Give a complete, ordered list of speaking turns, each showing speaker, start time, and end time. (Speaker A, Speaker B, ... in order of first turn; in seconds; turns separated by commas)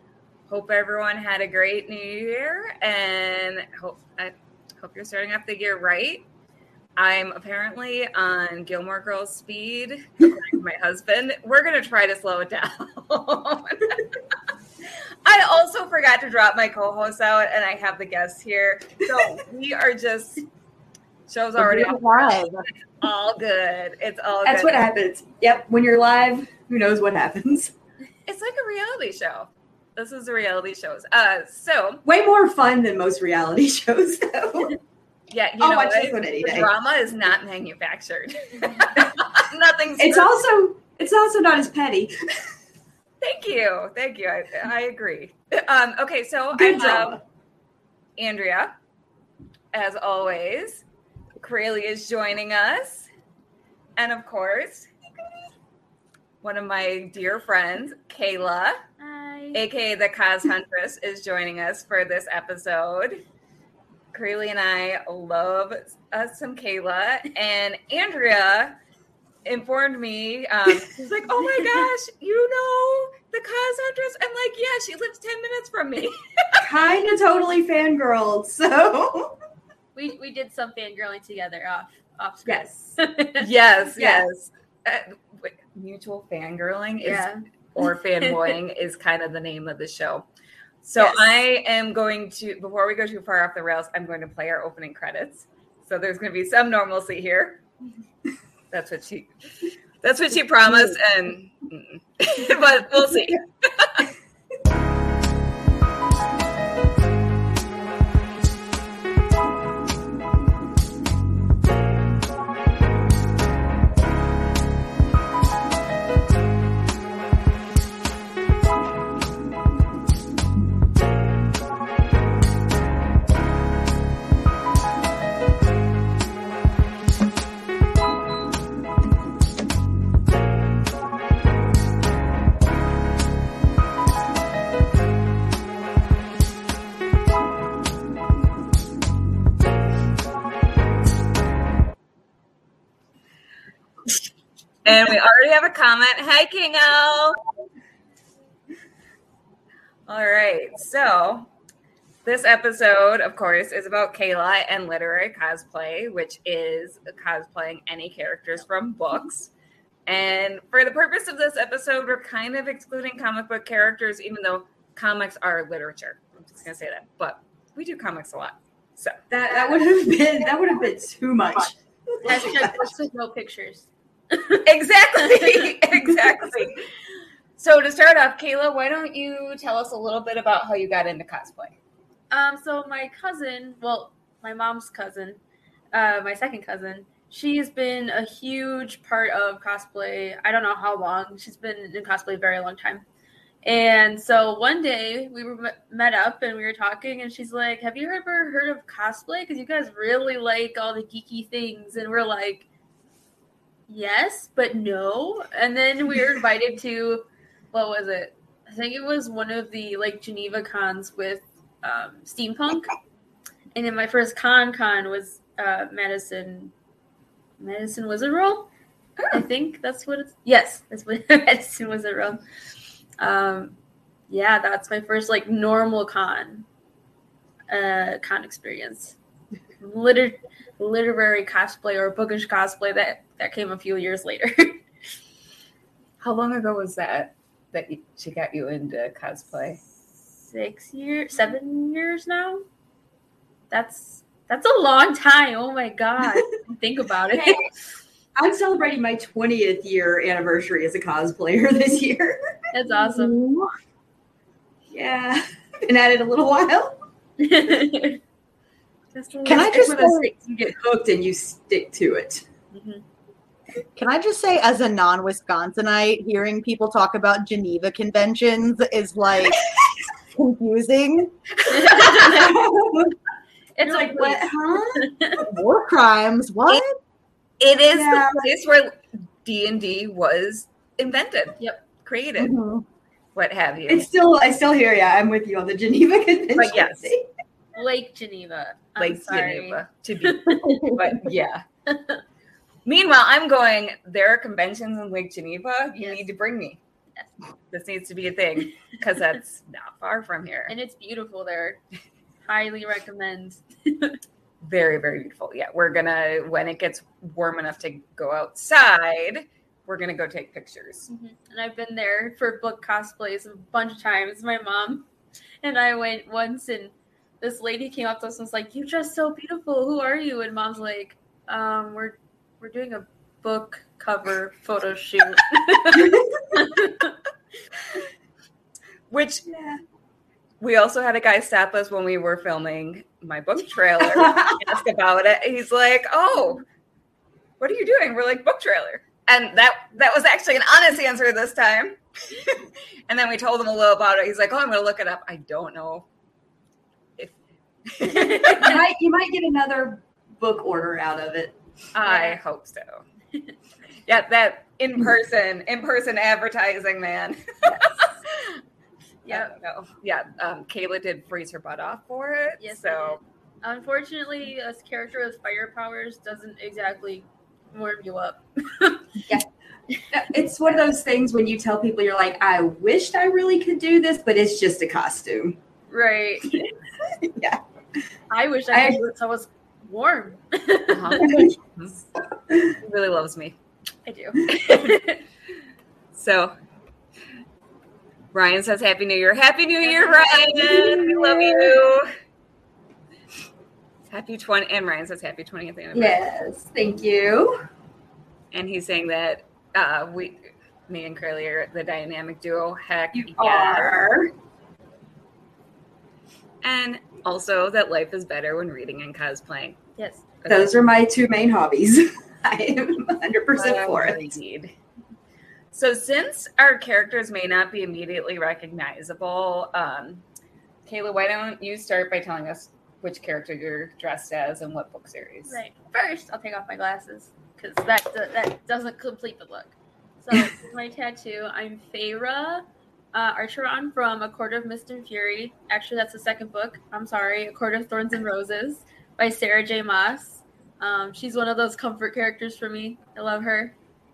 Speaker A: 0.5-6.2, Speaker A: 7.0-14.2, Speaker A: 15.2-20.4, Speaker A: 21.3-24.8, Speaker B: 21.6-22.6, Speaker C: 24.4-27.7, Speaker A: 28.2-32.0, Speaker C: 32.0-34.8, Speaker A: 35.3-40.3, Speaker C: 35.6-36.7, Speaker C: 40.0-42.1, Speaker A: 43.2-47.2, Speaker C: 46.5-47.2, Speaker A: 48.2-48.7, Speaker A: 49.7-50.8, Speaker A: 51.4-53.1, Speaker A: 54.0-54.9, Speaker A: 56.4-58.8, Speaker D: 59.0-59.6, Speaker A: 59.5-63.2, Speaker A: 64.1-68.8, Speaker A: 69.4-76.6, Speaker C: 76.6-79.3, Speaker D: 79.9-83.5, Speaker C: 82.5-82.9, Speaker A: 83.4-90.3, Speaker C: 84.0-84.2, Speaker D: 87.0-87.4, Speaker D: 88.2-88.5, Speaker A: 90.8-97.6, Speaker D: 91.0-91.3, Speaker A: 98.7-99.3, Speaker A: 100.0-104.1, Speaker A: 144.8-147.4, Speaker A: 150.1-151.5, Speaker A: 152.2-159.5, Speaker A: 160.1-169.2, Speaker C: 169.3-172.8, Speaker D: 172.2-175.8, Speaker A: 174.6-176.8, Speaker A: 177.6-181.8, Speaker D: 182.3-185.4, Speaker D: 185.9-193.0, Speaker D: 193.6-202.7, Speaker D: 203.9-212.9, Speaker D: 213.7-216.7, Speaker D: 217.6-218.7, Speaker D: 219.3-222.4, Speaker D: 223.2-223.8, Speaker D: 224.3-226.7, Speaker D: 227.7-229.2, Speaker D: 229.8-234.8, Speaker A: 236.2-239.8, Speaker D: 240.4-242.6, Speaker D: 243.7-247.7, Speaker C: 248.3-252.4, Speaker D: 252.7-253.4, Speaker B: 253.0-253.7, Speaker C: 254.9-257.0, Speaker D: 257.4-258.2, Speaker A: 259.1-259.6, Speaker C: 259.3-262.4, Speaker B: 259.4-260.3, Speaker D: 262.7-263.0, Speaker B: 263.9-269.6, Speaker B: 270.3-271.3, Speaker D: 271.7-272.6, Speaker C: 271.7-273.1, Speaker D: 273.8-275.4, Speaker C: 273.8-275.1, Speaker B: 275.4-276.9, Speaker A: 277.6-282.6, Speaker C: 277.9-278.4, Speaker B: 282.4-282.8, Speaker A: 283.3-284.1, Speaker C: 283.9-287.2, Speaker A: 286.6-287.1, Speaker D: 287.7-290.8, Speaker A: 289.0-291.6, Speaker B: 290.7-291.0, Speaker D: 291.9-292.2, Speaker A: 292.9-296.8, Speaker A: 297.7-300.7, Speaker D: 300.7-301.8, Speaker D: 302.4-304.2, Speaker A: 304.6-311.1, Speaker D: 311.1-315.1, Speaker D: 315.6-327.1, Speaker C: 325.9-326.6, Speaker A: 329.1-329.5, Speaker C: 329.5-329.8, Speaker A: 330.6-336.6, Speaker C: 334.0-334.7, Speaker A: 337.6-346.1, Speaker A: 347.9-348.7, Speaker D: 348.1-348.7, Speaker C: 348.5-351.6, Speaker A: 351.9-353.0, Speaker D: 352.0-352.4, Speaker A: 354.1-358.6, Speaker D: 359.2-359.5, Speaker A: 359.3-363.2, Speaker D: 362.6-369.1, Speaker C: 370.1-375.6, Speaker D: 375.9-376.6, Speaker C: 376.5-377.6, Speaker D: 378.3-381.5, Speaker C: 378.7-379.1, Speaker A: 380.9-382.0, Speaker C: 381.2-381.5, Speaker A: 382.8-383.6, Speaker D: 384.1-385.2, Speaker A: 386.1-386.5, Speaker A: 388.3-392.1, Speaker D: 389.8-390.9, Speaker C: 390.6-391.7, Speaker A: 394.1-396.2, Speaker C: 395.9-397.6, Speaker A: 398.5-404.1, Speaker C: 403.1-404.3, Speaker A: 406.6-409.8, Speaker D: 410.0-410.2, Speaker C: 410.5-414.2, Speaker A: 413.6-414.7, Speaker A: 415.7-420.2, Speaker A: 420.9-425.6, Speaker D: 425.5-443.7